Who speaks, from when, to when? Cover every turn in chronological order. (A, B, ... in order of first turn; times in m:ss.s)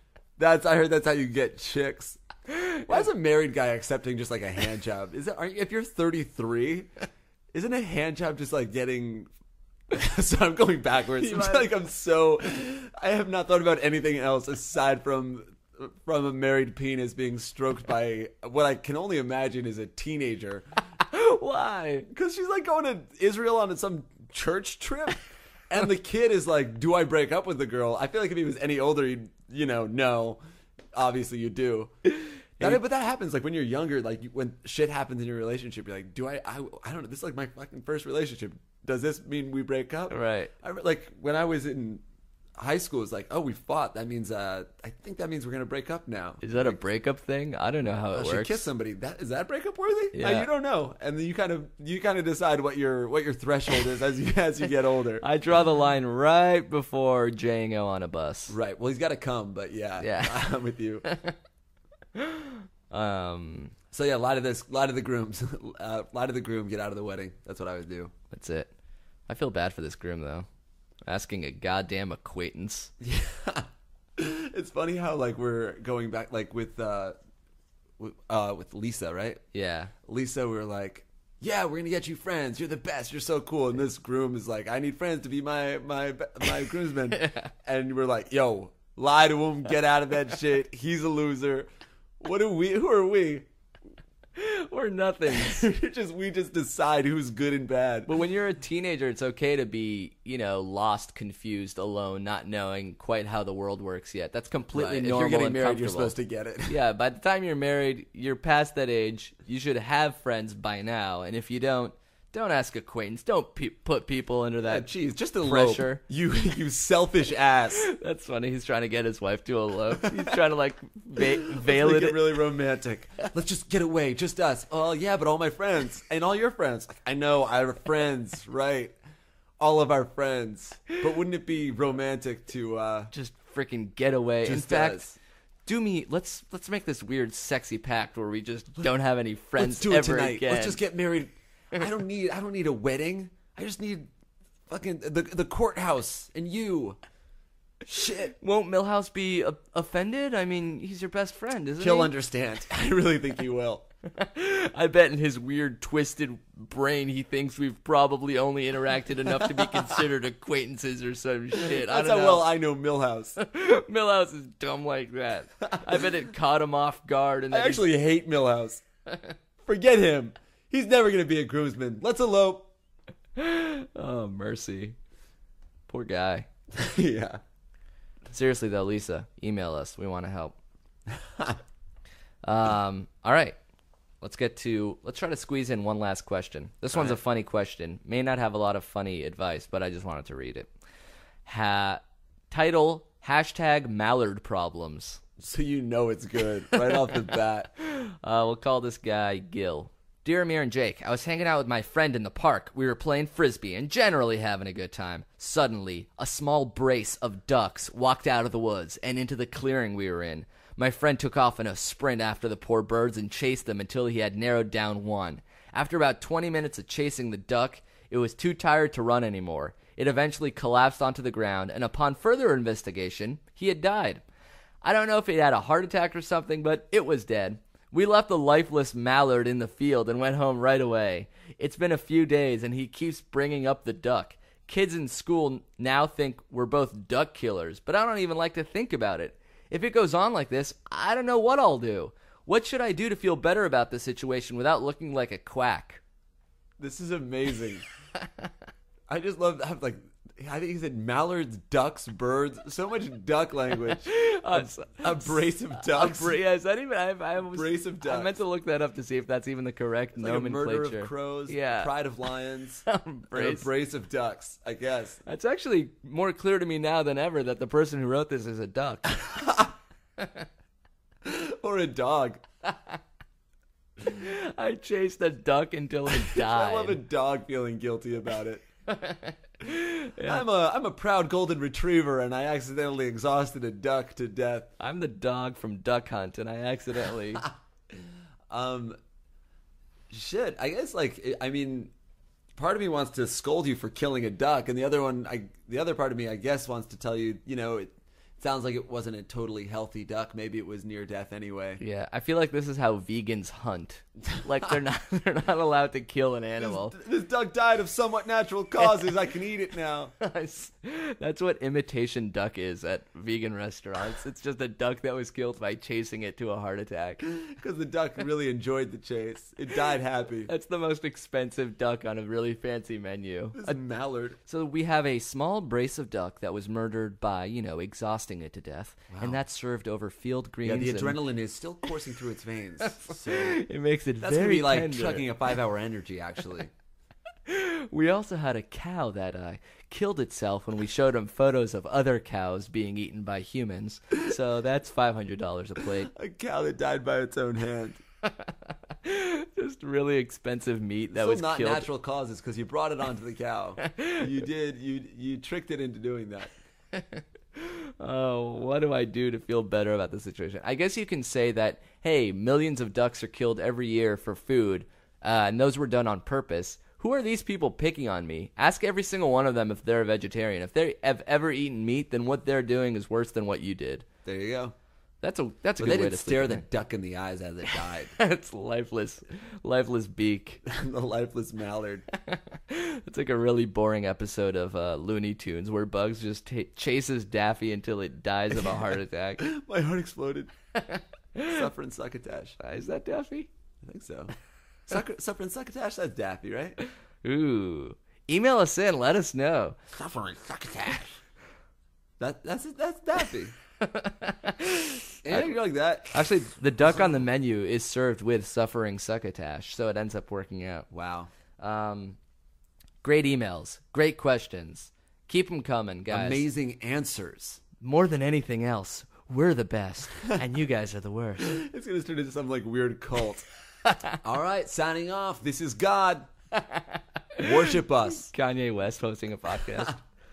0:00.4-0:02.2 A
0:02.5-0:03.1 B
0:02.9-0:06.9 A
0:07.5-0:09.3 A
0:09.9-0:20.6 A
0:11.2-0:11.7 B
0:21.1-0:22.1 B
0:22.1-0:30.4 A
0:30.9-0:31.9 A
0:32.6-0:42.0 A
0:40.1-0:40.5 B
0:42.6-0:46.8 A
0:46.4-0:48.6 B
0:48.1-0:55.2 A
0:50.1-0:50.5 B
0:55.2-0:58.6 B
0:58.5-1:01.0 A
1:00.0-1:00.5 B
1:01.0-1:01.4 B
1:02.1-1:03.7 B
1:03.9-1:08.1 A
1:08.3-1:08.7 B
1:09.3-1:10.5 B
1:11.0-1:12.9 B
1:13.0-1:17.2 A
1:18.0-1:19.4 A
1:19.5-1:19.9 B
1:20.1-1:31.7 A
1:27.1-1:27.4 B
1:32.2-1:33.5 A
1:34.4-1:35.7 B
1:35.4-1:38.1 A
1:38.1-1:46.1 B
1:44.7-1:46.8 A
1:46.7-1:54.9 B
1:54.6-1:57.9 A
1:55.4-1:56.0 B
1:57.8-2:02.4 B
2:01.2-2:09.0 A
2:09.6-2:13.1 A
2:13.1-2:15.1 B
2:14.4-2:15.2 A
2:15.6-2:20.8 B
2:19.6-2:24.1 A
2:24.7-2:27.0 A
2:27.9-2:28.3 A
2:28.3-2:32.1 B
2:31.8-2:33.8 A
2:34.1-2:42.5 B
2:41.6-2:43.4 A
2:43.4-2:47.8 B
2:47.5-2:48.8 A
2:49.6-2:52.7 A
2:53.4-2:55.0 B
2:55.9-2:56.5 B
2:56.8-2:57.4 A
2:58.3-3:00.6 B
3:01.1-3:01.6 A
3:02.4-3:03.6 B
3:04.2-3:10.7 B
3:11.4-3:15.2 B
3:15.4-3:17.7 A
3:16.8-3:17.1 B
3:17.8-3:44.2 B
3:44.8-4:06.0 B
4:06.8-4:07.8 A
4:09.1-4:16.4 A
4:13.8-4:21.9 B
4:17.4-4:18.3 A
4:20.2-4:25.2 A
4:22.9-4:23.7 B
4:25.3-4:29.1 B
4:29.2-4:29.7 A
4:31.2-4:32.4 A
4:34.0-4:37.0 B
4:36.2-4:38.6 A
4:38.9-4:40.4 B
4:40.2-4:44.7 A
4:44.8-4:47.4 B
4:48.5-4:49.0 A
4:50.1-4:51.9 A
4:52.6-5:01.8 A
5:01.8-5:06.9 B
5:06.6-5:10.1 A
5:10.2-5:17.2 B
5:17.3-5:20.5 A
5:20.5-5:23.8 B
5:23.6-5:24.4 A
5:24.5-5:31.2 B
5:29.1-5:29.4 A
5:30.6-5:33.6 A
5:33.1-5:35.3 B
5:34.2-5:36.7 A
5:37.5-5:46.1 B
5:46.1-5:48.0 A
5:48.2-5:51.9 B
5:51.1-5:56.5 A
5:53.8-5:54.3 B
5:56.9-6:14.1 B
6:14.2-6:14.8 A
6:15.2-6:16.6 B
6:15.8-6:18.1 A
6:18.2-6:20.6 B
6:20.6-6:22.1 A
6:22.2-6:29.4 B
6:29.4-6:30.5 A
6:30.8-6:31.6 B
6:31.4-6:32.6 A
6:32.6-6:33.5 B
6:33.8-6:34.3 A
6:34.9-6:36.8 A
6:37.2-6:39.8 B
6:39.9-6:41.1 A
6:42.2-6:43.5 A
6:43.8-6:45.6 B
6:45.2-6:46.2 A
6:46.1-6:50.9 B
6:50.9-6:51.3 A
6:51.6-6:52.2 B
6:53.0-6:56.4 B
6:56.1-6:57.6 A
6:57.8-7:01.6 B
7:01.4-7:03.5 A
7:04.2-7:06.3 A
7:07.4-7:08.3 A
7:08.2-7:10.0 B